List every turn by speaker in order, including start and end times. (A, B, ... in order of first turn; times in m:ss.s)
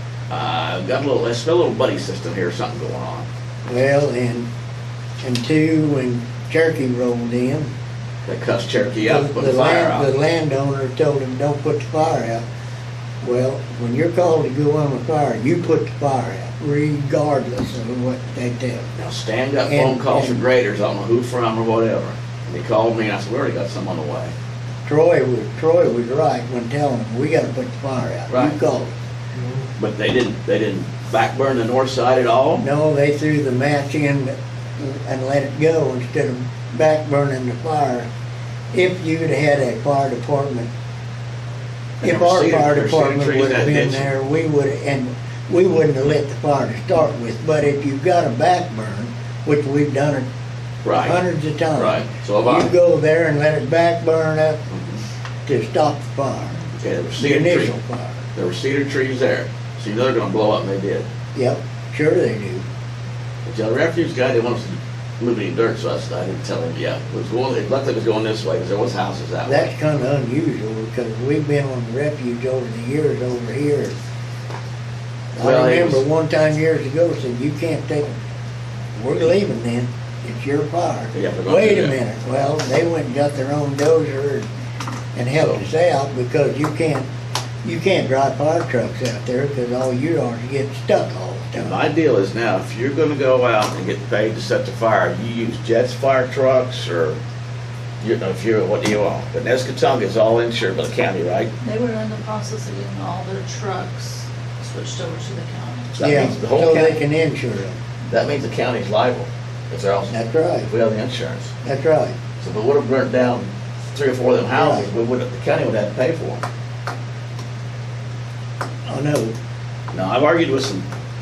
0:00.3-0:03.3 A
0:03.6-0:04.5 B
0:05.2-0:07.7 B
0:08.2-0:10.1 A
0:09.0-0:12.4 B
0:13.2-0:19.0 B
0:19.0-0:24.3 A
0:19.6-0:20.4 B
0:24.8-0:28.9 B
0:28.3-0:28.6 A
0:29.8-0:32.6 A
0:32.6-0:38.1 B
0:38.7-0:40.7 B
0:42.0-0:44.1 A
0:42.0-0:50.3 B
0:50.8-0:51.2 A
0:51.0-0:54.6 B
0:51.7-0:52.7 A
0:54.7-0:55.0 A
0:55.4-0:56.6 B
0:56.8-0:57.8 A
0:57.2-0:58.2 B
0:58.3-1:01.1 A
1:01.3-1:02.6 B
1:03.4-1:09.7 A
1:09.4-1:13.9 B
1:15.3-1:16.0 A
1:15.4-1:18.1 B
1:18.9-1:24.5 B
1:21.1-1:22.0 A
1:25.1-1:27.1 B
1:25.3-1:25.6 A
1:27.6-1:31.8 B
1:31.6-1:37.2 A
1:38.0-1:41.5 A
1:41.6-1:46.0 C
1:46.0-1:47.0 A
1:46.0-1:47.8 B
1:48.1-1:51.5 A
1:50.1-1:50.7 B
1:51.6-1:52.1 B
1:52.4-1:56.4 A
1:54.5-1:54.9 B
1:58.8-1:59.3 B
1:59.9-2:00.9 A